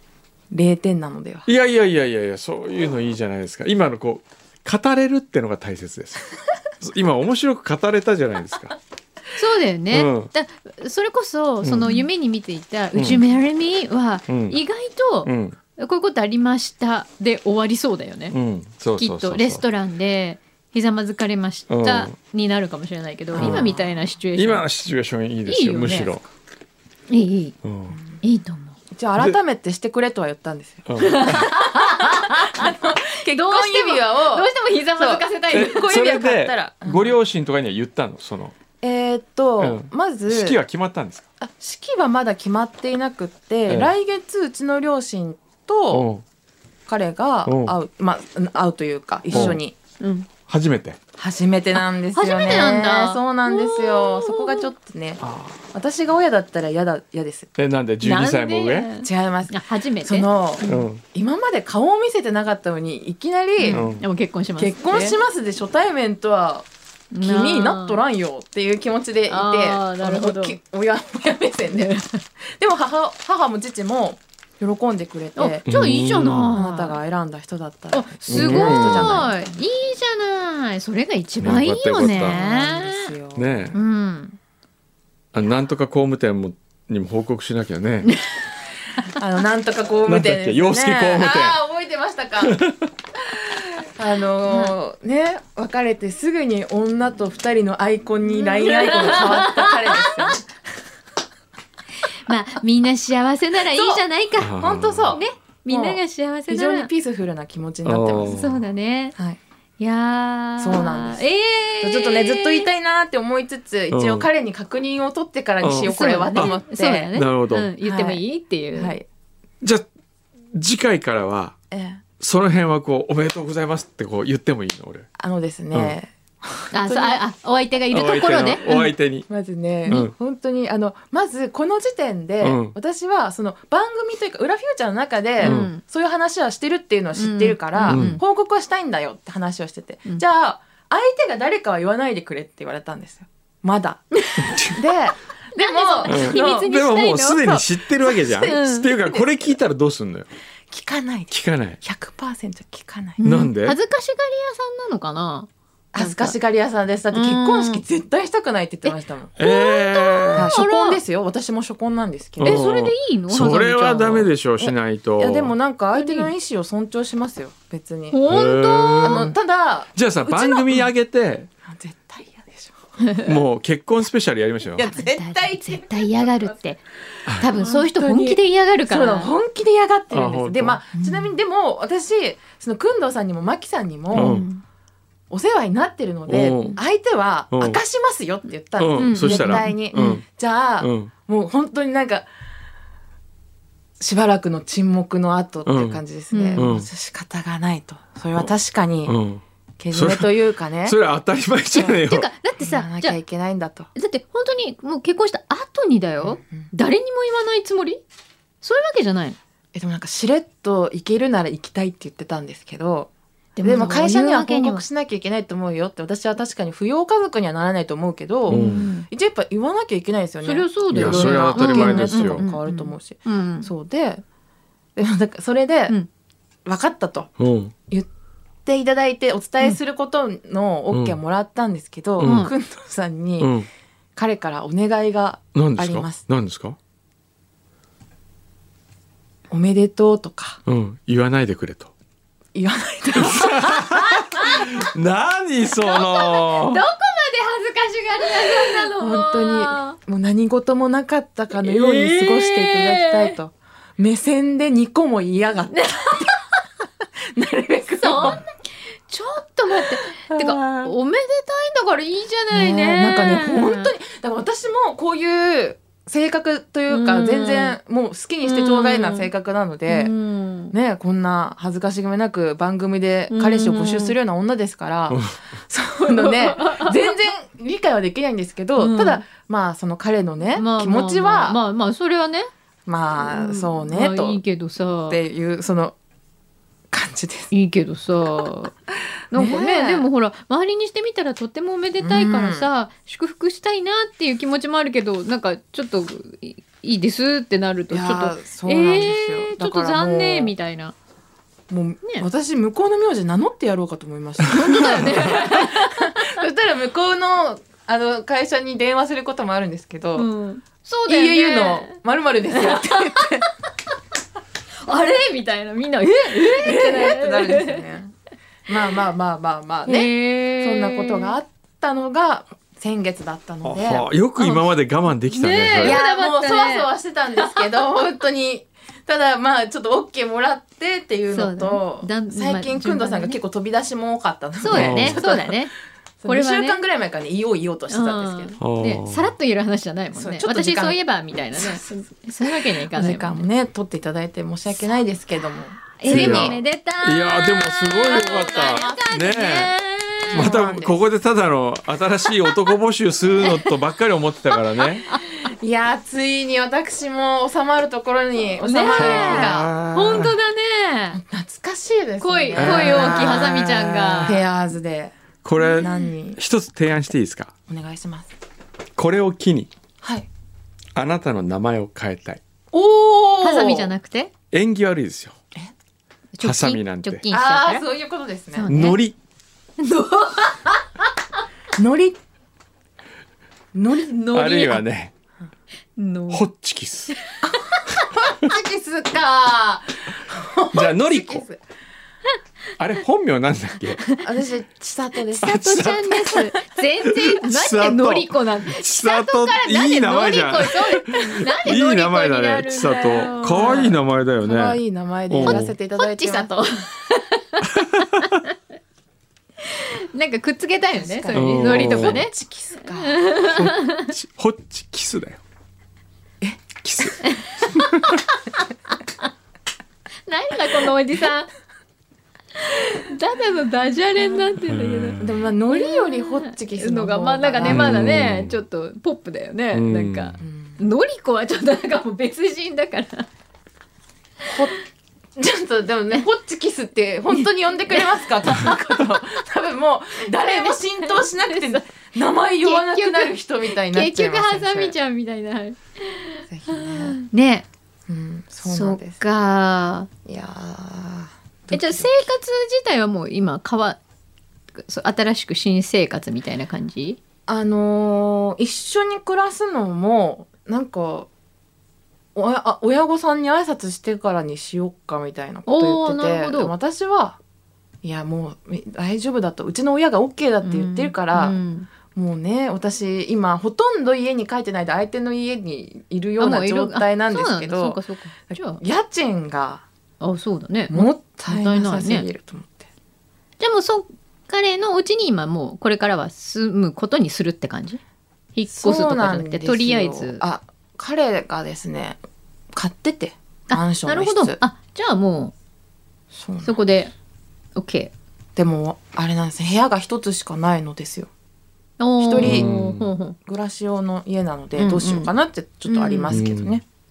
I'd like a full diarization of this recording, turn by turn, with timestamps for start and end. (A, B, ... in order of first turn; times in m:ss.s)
0:00.5-0:01.5 A
0:01.5-0:08.8 B
0:09.4-0:18.4 C
0:09.9-0:10.3 B
0:11.6-0:12.0 B
0:13.0-0:13.2 B
0:14.3-0:14.6 B
0:15.2-0:15.6 B
0:18.3-0:19.6 B
0:19.0-0:24.7 C
0:21.7-0:22.1 B
0:23.3-0:23.8 A
0:23.4-0:23.7 B
0:24.4-0:26.2 B
0:25.5-0:26.1 C
0:27.1-0:27.6 C
0:27.6-0:28.0 B
0:27.9-0:28.2 A
0:28.2-0:28.8 C
0:28.9-0:37.2 A
0:30.9-0:31.5 B
0:31.0-0:35.9 C
0:35.5-0:38.5 B
0:38.8-0:40.6 A
0:39.6-0:41.3 B
0:41.4-0:46.1 A
0:43.7-0:43.9 B
0:45.9-0:46.2 B
0:46.9-0:49.8 A
0:47.5-0:47.7 B
0:49.3-0:50.3 C
0:49.3-0:49.6 B
0:50.5-0:51.0 B
0:51.2-0:57.5 A
0:51.8-0:54.7 C
0:55.2-0:55.6 B
0:57.6-0:58.9 B
0:58.0-1:00.9 C
0:59.0-1:03.9 A
1:00.6-1:01.0 B
1:03.6-1:05.2 C
1:03.7-1:04.0 B
1:04.6-1:06.7 A
1:07.1-1:08.0 C
1:07.2-1:12.0 A
1:09.3-1:10.6 C
1:11.7-1:12.2 C
1:12.6-1:15.7 A
1:15.4-1:17.0 C
1:15.7-1:16.6 B
1:16.5-1:19.4 A
1:17.9-1:23.1 C
1:18.3-1:19.3 B
1:21.4-1:22.4 B
1:22.0-1:23.5 A
1:23.4-1:23.8 B
1:23.7-1:24.4 C
1:25.3-1:28.1 B
1:29.1-1:32.6 A
1:30.1-1:31.6 B
1:32.4-1:32.9 B
1:33.8-1:40.4 A
1:34.5-1:34.7 C
1:38.3-1:40.3 C
1:42.3-1:44.6 C
1:43.7-1:44.0 A
1:44.4-1:45.2 B
1:44.6-1:48.4 A
1:45.1-1:46.9 C
1:47.8-1:48.6 B
1:48.3-1:49.2 C
1:49.8-1:52.7 C
1:50.6-1:51.2 A
1:51.8-1:57.1 A
1:53.9-1:54.3 B
1:55.6-1:56.6 B
1:55.8-1:59.0 C
1:57.1-1:57.7 B
1:57.8-1:58.2 A
1:58.7-1:59.1 A
2:00.5-2:01.6 B
2:01.7-2:02.0 A
2:02.2-2:05.1 B
2:05.2-2:07.2 A
2:06.7-2:08.9 C
2:07.9-2:09.3 B
2:09.3-2:24.1 A
2:09.9-2:10.1 B
2:12.4-2:12.8 B
2:15.4-2:15.8 C
2:15.4-2:15.7 B
2:17.2-2:18.2 C
2:17.9-2:18.2 B
2:24.2-2:24.5 C
2:24.4-2:24.8 B
2:24.6-2:26.7 A
2:25.6-2:28.9 C
2:26.1-2:30.3 B
2:30.7-2:33.2 A
2:31.3-2:31.8 B
2:33.2-2:36.4 C
2:33.2-2:33.8 B
2:35.9-2:39.3 A
2:37.1-2:37.8 C
2:38.9-2:41.0 C
2:39.4-2:40.5 B
2:40.4-2:42.7 A
2:42.4-2:45.5 B
2:42.4-2:44.3 C
2:44.6-2:48.2 A
2:46.0-2:46.3 C
2:48.1-2:49.3 C
2:48.3-2:49.4 B
2:49.0-2:50.9 A
2:50.0-2:51.5 B
2:51.7-2:52.8 A
2:53.0-2:53.3 C
2:53.2-2:54.9 B
2:54.8-2:56.6 A
2:54.9-2:56.8 C
2:57.4-2:59.3 C
2:57.4-3:04.4 A
3:00.1-3:00.8 B
3:01.0-3:01.3 C
3:04.1-3:04.6 C
3:04.1-3:04.5 B
3:05.3-3:12.3 A
3:06.3-3:06.8 B
3:07.5-3:07.8 B
3:08.8-3:10.2 B
3:09.0-3:10.2 C
3:10.8-3:11.1 B
3:14.0-3:19.2 A
3:15.7-3:16.0 B
3:16.3-3:16.7 C
3:16.6-3:16.9 B
3:19.1-3:22.3 B
3:19.8-3:21.0 A
3:21.8-3:23.2 C
3:22.6-3:23.9 A
3:24.0-3:28.0 C
3:26.2-3:26.7 A
3:28.6-3:29.4 C
3:29.7-3:33.1 A
3:33.6-3:34.8 C
3:33.6-3:44.2 A
3:38.5-3:39.1 C
3:38.5-3:38.9 B
3:40.4-3:43.7 C
3:40.9-3:42.4 B
3:45.0-3:46.0 A
3:46.7-3:47.3 A
3:47.4-3:47.7 B
3:48.7-3:53.6 A
3:50.9-3:51.2 B
3:52.2-3:52.5 B
3:52.2-3:52.5 C
3:53.4-3:53.7 B
3:54.2-3:56.2 A
3:55.5-3:56.8 B
3:59.5-4:00.6 A
4:00.7-4:01.9 B
4:02.6-4:04.5 A
4:03.2-4:06.8 B
4:05.8-4:10.0 C
4:08.4-4:16.4 A
4:11.6-4:13.3 C
4:15.7-4:16.4 C
4:17.2-4:18.4 A
4:18.0-4:18.4 C
4:19.1-4:23.9 C
4:19.7-4:20.9 A
4:22.5-4:30.1 A
4:26.9-4:27.8 C
4:28.4-4:29.3 C
4:29.9-4:30.7 C
4:30.7-4:41.6 A
4:33.3-4:34.2 C
4:36.0-4:37.1 C
4:38.8-4:39.2 C
4:40.6-4:42.5 C
4:42.9-4:44.4 A
4:43.2-4:45.2 C
4:45.1-4:46.0 A
4:46.9-4:47.5 A
4:47.5-4:48.7 C
4:49.3-5:00.9 C
4:49.3-4:50.1 A
4:52.0-4:52.7 A
4:57.9-5:00.5 A
5:01.7-5:10.3 A
5:04.5-5:06.4 C
5:10.2-5:12.0 C
5:11.1-5:13.5 A
5:12.5-5:13.4 C
5:14.8-5:17.8 C
5:16.2-5:18.1 A
5:18.7-5:24.1 A
5:19.9-5:21.4 C
5:23.6-5:26.0 B
5:25.3-5:27.6 C
5:25.8-5:35.6 A
5:31.3-5:33.4 C
5:34.6-5:35.7 C
5:34.7-5:35.2 B
5:36.2-5:38.6 A
5:36.3-5:36.8 C
5:37.9-5:43.4 C
5:38.6-5:39.3 B
5:40.2-5:41.0 A
5:41.6-5:41.8 A
5:42.4-5:46.6 A
5:46.0-5:50.5 C
5:46.1-5:49.8 B
5:48.1-5:49.1 A
5:50.3-5:51.0 A
5:50.3-5:55.1 B
5:53.4-5:53.7 C
5:55.4-5:59.7 A
5:58.6-6:01.2 C
5:58.9-6:00.4 B
6:01.1-6:05.1 A
6:02.2-6:04.4 C
6:02.6-6:04.4 B
6:05.4-6:07.5 B
6:05.8-6:06.4 A
6:07.7-6:08.3 A
6:09.0-6:09.7 B
6:10.0-6:10.3 A
6:11.0-6:12.4 B
6:12.7-6:13.9 A
6:13.4-6:14.3 C
6:14.5-6:15.4 B
6:16.3-6:17.8 C
6:16.4-6:17.3 B
6:17.3-6:18.7 A
6:18.6-6:19.0 C
6:18.7-6:19.2 B
6:19.8-6:20.8 C
6:21.8-6:22.2 A
6:23.7-6:24.5 A
6:24.0-6:24.8 C
6:24.3-6:25.1 B
6:26.0-6:26.5 C
6:26.3-6:27.2 B
6:27.5-6:31.6 A
6:30.7-6:31.4 B
6:32.8-6:34.0 B
6:34.2-6:36.6 A
6:35.4-6:43.9 C
6:35.4-6:36.1 B
6:37.1-6:44.8 B
6:43.5-6:46.5 A
6:45.3-6:45.7 B
6:45.4-6:47.8 C
6:47.8-6:48.2 B
6:49.6-6:52.3 C
6:51.0-6:53.3 A
6:51.3-6:52.2 B
6:53.0-6:54.1 C
6:53.4-6:55.4 B
6:56.8-6:57.2 B
6:57.3-6:58.2 C
7:00.3-7:01.5 C
7:02.6-7:13.3 C
7:04.7-7:05.3 B
7:05.2-7:08.0 A
7:07.6-7:08.6 B
7:09.7-7:10.4 B
7:10.4-7:10.8 A
7:14.5-7:14.8 A
7:15.4-7:25.0 A
7:20.4-7:21.8 C
7:22.6-7:27.7 C
7:26.5-7:27.2 A
7:28.1-7:29.2 A
7:28.6-7:30.1 C
7:30.3-7:32.3 A
7:31.7-7:34.0 C
7:34.8-7:37.2 C
7:37.5-7:41.3 A
7:42.4-7:47.4 A
7:45.7-7:46.7 C
7:48.0-7:51.6 A
7:50.6-7:51.9 C
7:52.1-7:59.8 A
7:56.4-7:58.8 C
8:00.2-8:02.3 C
8:00.9-8:02.9 A
8:03.6-8:08.0 C
8:08.6-8:10.4 C
8:08.7-8:12.2 A
8:12.7-8:14.6 A
8:13.7-8:15.5 C
8:16.3-8:16.8 A
8:16.6-8:17.1 C
8:17.8-8:18.1 C
8:18.6-8:21.3 A
8:22.0-8:23.4 C
8:22.2-8:22.7 A
8:22.4-8:23.1 B
8:23.5-8:26.8 A
8:24.8-8:25.3 C
8:25.9-8:26.4 C
8:26.3-8:26.8 B